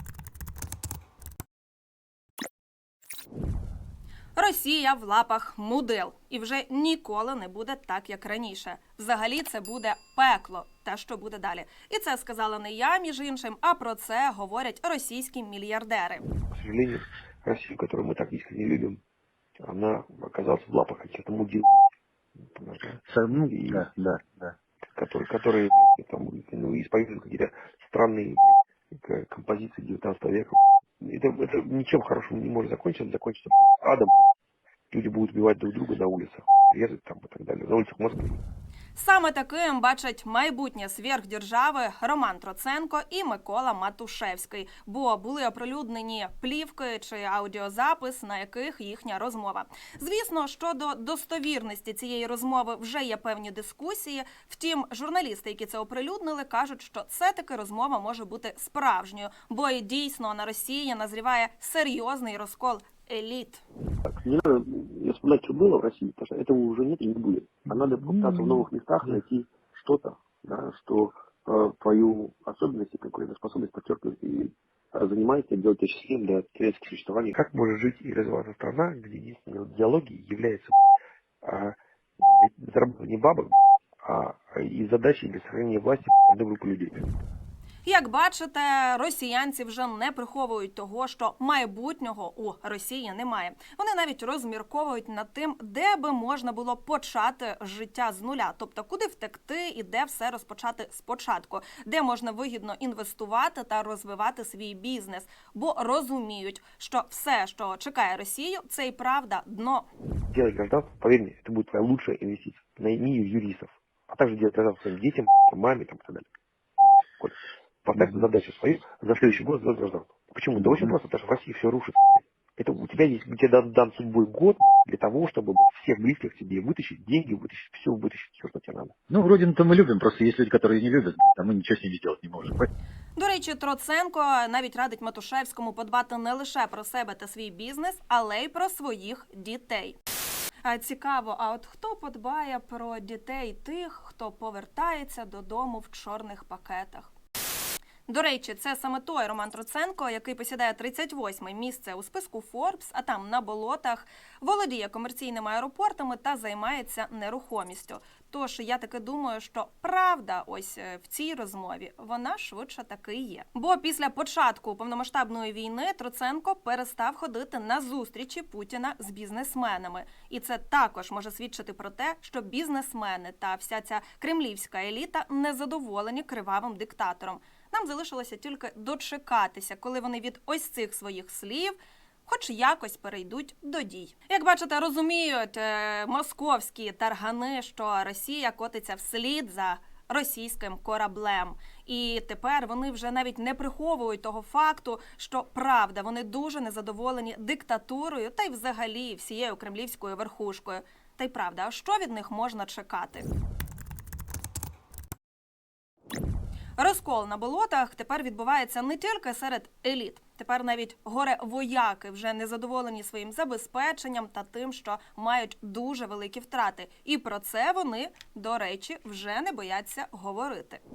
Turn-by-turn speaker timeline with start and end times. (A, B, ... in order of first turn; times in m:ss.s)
0:04.4-0:16.2 A
0:16.5-0:19.0 B
0:19.6-0:21.9 B
0:22.6-0:23.9 B
0:23.1-0:24.4 C
0:24.9-0:34.3 B
0:34.9-0:38.4 B
0:39.0-1:03.6 A
1:04.1-1:20.9 B
1:21.4-1:27.0 B
1:27.8-1:49.9 A
1:50.3-1:56.3 B
1:57.2-2:09.0 B
2:09.1-2:12.7 C
2:13.2-2:20.0 A
2:20.6-2:27.1 A
2:28.1-3:23.3 A
3:26.8-3:40.8 A